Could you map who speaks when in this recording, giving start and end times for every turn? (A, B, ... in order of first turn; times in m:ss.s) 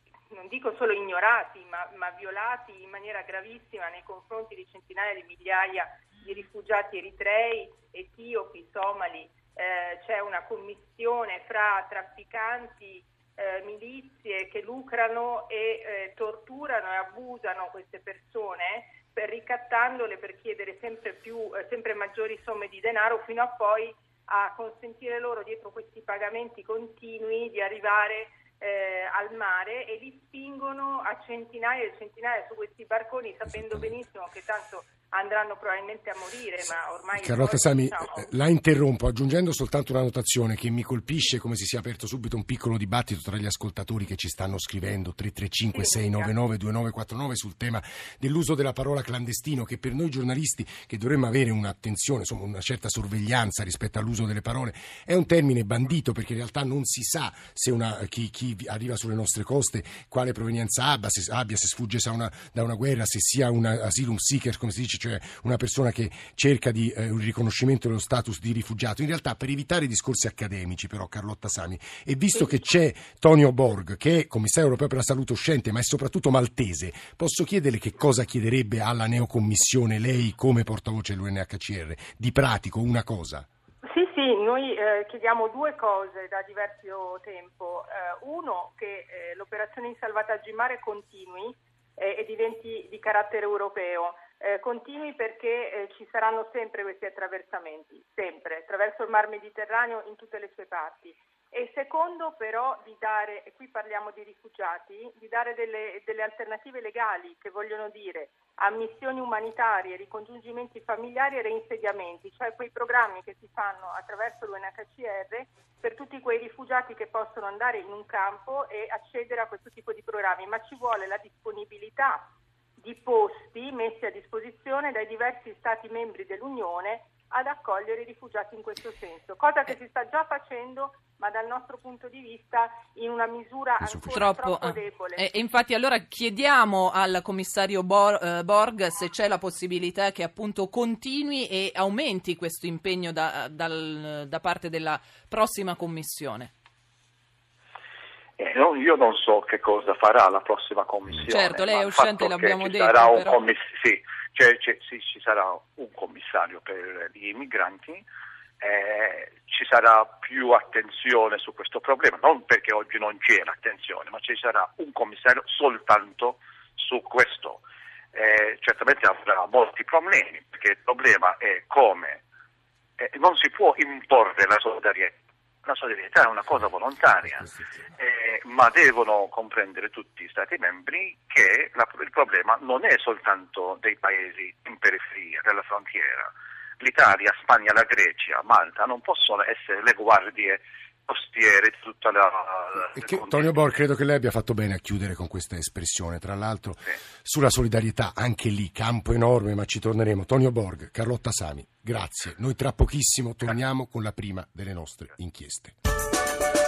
0:00.3-0:38.3 A
0:33.5-0:33.9 B
0:37.1-1:23.5 B
0:45.7-0:46.3 A
1:23.8-2:15.2 A
2:13.8-2:14.2 B
2:14.1-2:26.5 C
2:28.4-2:38.0 D
2:31.3-2:33.4 C
2:38.6-2:52.2 D
2:53.0-3:13.5 D
3:12.9-3:25.8 B